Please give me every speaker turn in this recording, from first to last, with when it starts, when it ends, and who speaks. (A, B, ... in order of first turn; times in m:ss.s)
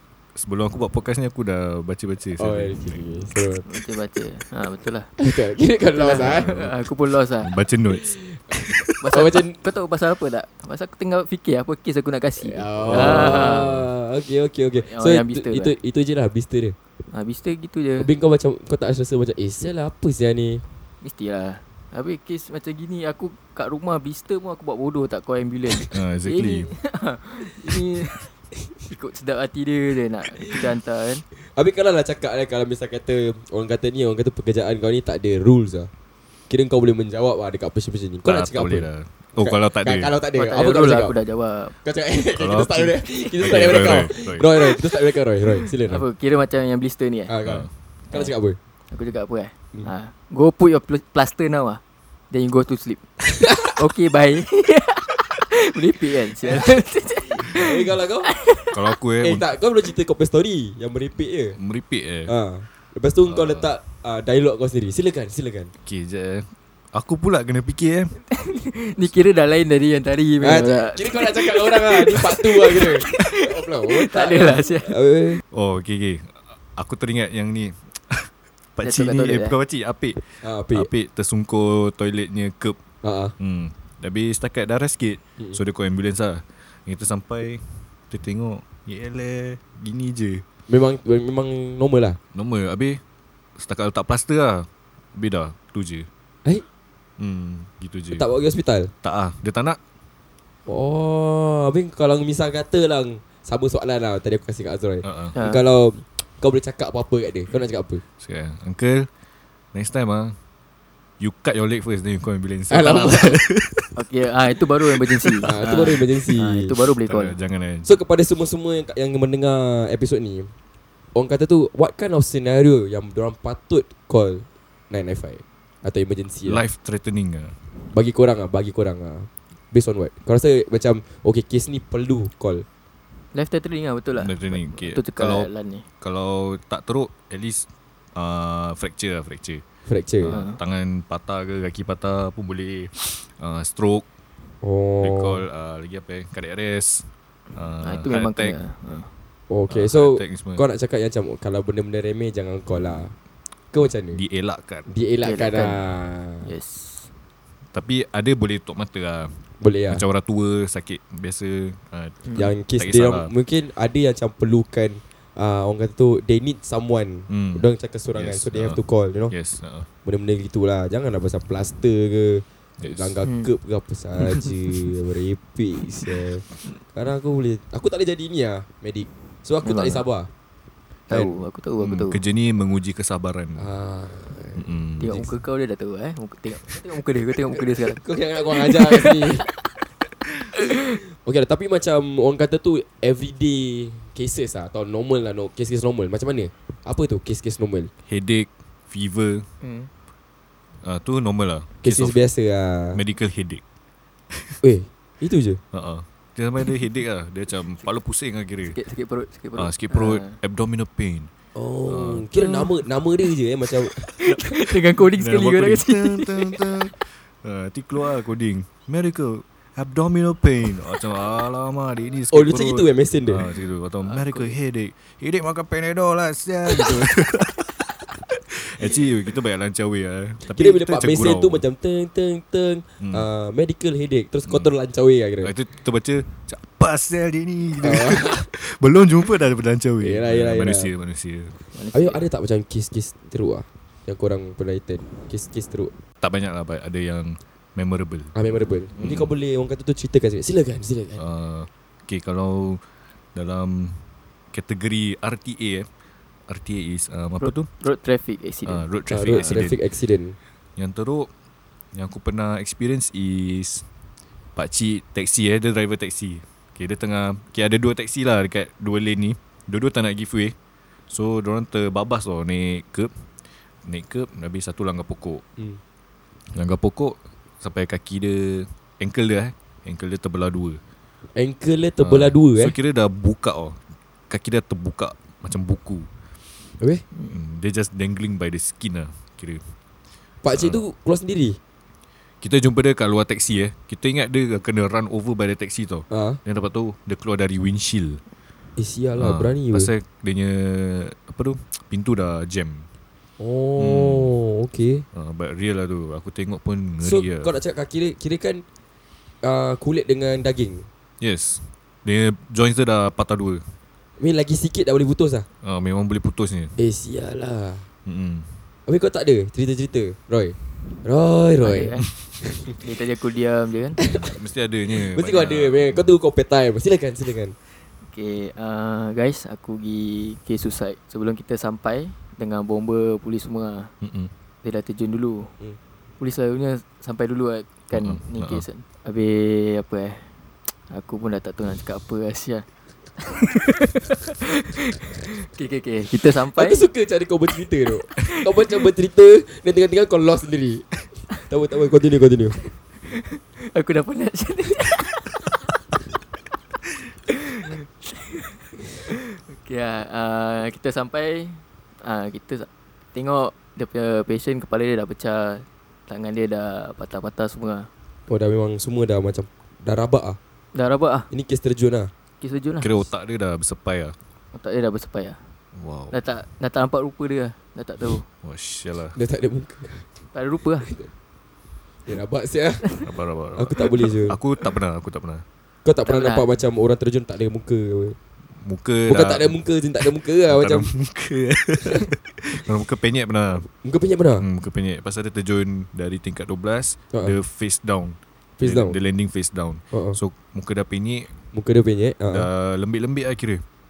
0:00.4-0:03.3 A
0:02.4-0:03.6 B
0:03.6-0:05.1 C
0:05.2-0:06.5 B
0:06.0-0:07.5 C
0:06.3-0:06.6 A
0:07.4-0:08.8 A
0:07.9-0:09.6 B
0:09.0-0:13.8 C
0:12.4-0:16.8 B
0:12.8-0:13.8 A
0:14.8-0:15.7 C
0:17.1-0:18.1 C
0:18.0-0:20.6 B
0:21.0-0:31.2 C
0:25.8-0:26.7 A
0:31.4-0:35.9 B
0:36.5-0:41.2 B
0:38.2-0:40.1 A
0:40.4-0:41.8 C
0:41.8-0:46.0 B
0:42.4-0:44.5 A
0:45.8-0:47.3 C
0:47.3-0:48.6 B
0:47.4-0:47.7 A
0:48.9-0:58.8 C
0:53.4-0:53.7 B
0:57.5-0:58.3 B
0:58.7-0:59.4 A
0:59.2-1:01.6 B
1:01.6-1:02.3 A
1:02.3-1:05.7 B
1:03.2-1:03.8 A
1:05.8-1:08.2 A
1:08.3-1:14.9 C
1:10.4-1:15.4 B
1:15.5-1:22.8 A
1:18.8-1:19.5 C
1:20.4-1:20.9 B
1:23.0-1:23.3 B
1:23.4-1:30.4 A
1:30.7-1:32.2 B
1:32.3-1:33.0 A
1:33.6-1:36.1 A
1:37.2-1:38.2 A
1:38.1-1:38.9 B
1:39.0-1:39.8 A
1:40.6-1:48.0 B
1:45.0-1:45.4 A
1:45.3-1:45.6 C
1:48.2-1:49.1 A
1:49.7-1:50.4 A
1:51.2-1:53.9 A
1:52.7-1:53.4 B
1:53.9-1:57.3 C
1:55.1-1:55.8 A
1:55.4-1:56.7 B
1:57.0-1:57.9 A
1:57.8-2:00.5 B
2:01.1-2:06.6 B
2:06.4-2:07.6 A
2:07.9-2:12.6 B
2:13.3-2:15.8 C
2:14.1-2:15.5 A
2:16.0-2:19.6 A
2:19.8-2:20.4 B
2:20.2-2:24.0 A
2:20.3-2:20.6 C
2:24.6-2:25.4 B
2:25.0-2:28.6 A
2:27.8-2:29.1 C
2:29.5-2:33.1 B
2:29.7-2:30.6 A
2:33.7-2:34.2 B
2:34.1-2:34.9 A
2:34.9-2:36.5 B
2:35.2-2:35.8 C
2:36.4-2:37.1 C
2:37.7-2:43.3 A
2:39.6-2:40.0 B
2:42.3-2:49.3 B
2:47.3-2:49.9 A
2:50.0-3:00.3 B
2:52.8-2:53.2 A
2:53.2-2:53.5 C
2:59.6-3:00.0 C
3:01.1-3:02.2 C
3:01.1-3:01.4 B
3:01.8-3:03.7 A
3:03.6-3:04.7 B
3:04.5-3:05.3 A
3:05.0-3:08.0 C
3:07.7-3:09.5 B
3:08.6-3:09.2 C
3:11.1-3:17.9 B
3:18.0-3:19.5 A
3:19.6-3:19.9 C
3:20.8-3:22.2 A
3:21.8-3:23.0 B
3:22.9-3:23.6 A
3:24.3-3:24.6 A
3:24.6-3:25.6 B
3:25.7-3:28.8 A
3:28.7-3:30.4 C
3:29.6-3:31.3 A
3:31.5-3:34.1 B
3:31.9-3:32.4 A
3:32.4-3:32.6 C
3:34.2-3:36.7 C
3:34.9-3:51.6 A
3:42.3-3:43.4 B
3:44.0-3:44.5 C
3:50.5-3:55.5 B
3:53.0-3:53.2 A
3:54.5-3:54.7 A
3:55.4-4:01.6 A
3:57.8-3:58.5 B
4:00.0-4:00.9 B
4:01.7-4:02.2 C
4:01.9-4:05.9 B
4:06.2-4:08.4 A
4:08.3-4:11.2 B
4:08.9-4:09.3 A
4:11.2-4:12.8 A
4:13.3-4:15.9 A
4:16.5-4:17.7 A
4:17.4-4:18.8 C
4:18.6-4:19.8 A
4:19.1-4:20.4 B
4:20.8-4:21.3 A
4:21.9-4:23.9 A
4:24.6-4:30.5 A
4:31.1-4:33.2 A
4:33.8-4:35.4 A
4:36.5-4:40.8 A
4:41.3-4:42.7 B
4:42.0-4:46.1 A
4:47.2-4:49.7 A
4:50.4-4:51.6 B
4:50.5-4:50.8 A
4:52.4-4:58.2 A
4:56.1-4:56.4 B
4:58.8-4:59.9 B
4:59.2-5:02.9 A
5:03.4-5:05.0 B
5:03.8-5:04.3 A
5:05.1-5:07.5 A
5:07.0-5:08.6 B
5:09.4-5:10.9 B
5:11.2-5:13.7 A
5:14.2-5:15.5 B
5:15.6-5:16.8 A
5:16.8-5:17.8 B
5:18.0-5:18.6 A
5:18.9-5:22.8 B
5:21.6-5:22.1 C
5:22.8-5:24.0 C
5:24.0-5:24.3 B
5:24.0-5:26.1 A
5:24.9-5:27.6 B
5:28.0-5:33.9 C
5:34.0-5:34.3 A
5:34.6-5:35.6 C
5:36.2-5:40.3 C
5:37.9-5:38.6 A
5:40.9-5:42.6 C
5:43.2-5:46.9 C
5:46.5-5:52.6 B
5:53.1-5:55.5 C
5:57.3-6:07.9 C
6:08.3-6:10.4 B
6:10.7-6:11.3 C
6:11.3-6:12.1 B
6:12.4-6:13.1 C
6:12.8-6:14.2 A
6:14.5-6:15.5 C
6:15.7-6:16.2 A
6:16.1-6:18.2 C
6:18.4-6:19.2 A
6:19.1-6:20.1 B
6:20.3-6:20.9 C
6:22.0-6:22.9 B
6:23.0-6:25.4 A
6:23.5-6:24.4 B
6:25.8-6:28.2 B
6:26.0-6:26.5 C
6:28.5-6:29.5 A
6:29.1-6:30.9 B
6:30.5-6:33.7 A
6:33.7-6:34.4 B
6:34.4-6:41.3 A
6:38.6-6:39.0 B
6:39.9-6:40.2 B
6:41.5-6:42.5 B
6:42.3-6:43.6 A